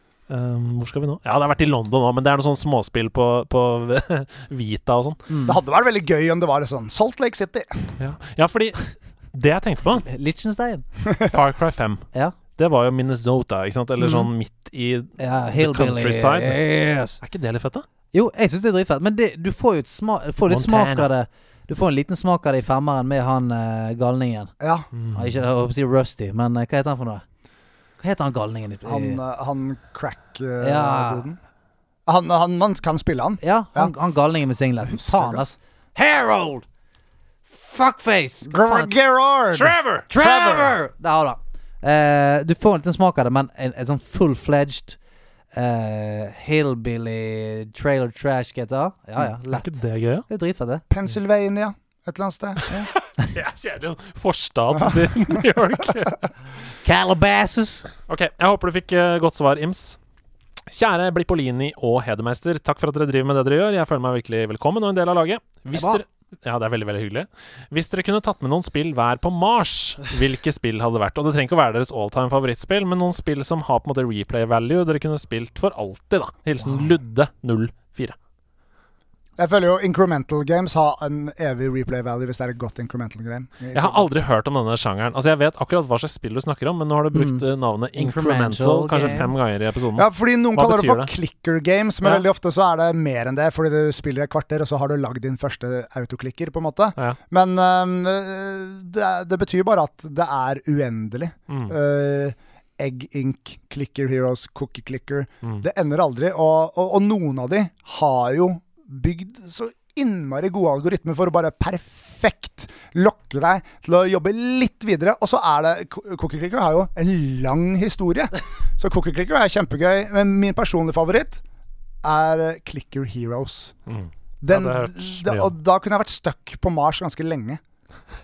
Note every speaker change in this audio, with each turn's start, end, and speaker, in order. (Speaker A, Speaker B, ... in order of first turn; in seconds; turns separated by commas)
Speaker A: 0.3-5.2, Speaker B: 5.3-5.6, Speaker C: 5.4-7.9, Speaker A: 8.0-10.1, Speaker B: 10.0-10.9, Speaker A: 11.2-16.6, Speaker B: 14.0-14.3, Speaker B: 15.2-17.2, Speaker A: 17.2-17.8, Speaker B: 18.1-24.5, Speaker A: 20.5-21.1, Speaker C: 24.6-24.9, Speaker A: 24.9-25.3, Speaker B: 25.1-27.2, Speaker B: 28.0-29.2, Speaker C: 28.8-31.4, Speaker B: 30.6-31.2, Speaker C: 32.1-33.9, Speaker B: 33.4-36.6, Speaker C: 34.9-35.5, Speaker B: 37.5-38.9, Speaker C: 38.5-40.8, Speaker A: 39.5-40.1, Speaker B: 40.1-45.0, Speaker B: 45.5-49.8, Speaker A: 49.5-50.2, Speaker B: 50.3-50.8, Speaker C: 50.9-52.7, Speaker B: 52.7-53.2, Speaker A: 53.2-56.2, Speaker B: 56.8-57.9, Speaker A: 58.1-60.0, Speaker A: 60.7-78.1, Speaker B: 65.7-66.0, Speaker C: 79.4-84.1, Speaker A: 83.7-91.1, Speaker B: 87.1-89.3, Speaker C: 90.0-121.4, Speaker A: 101.5-101.8, Speaker C: 122.0-123.7, Speaker A: 123.9-125.5, Speaker C: 124.4-127.6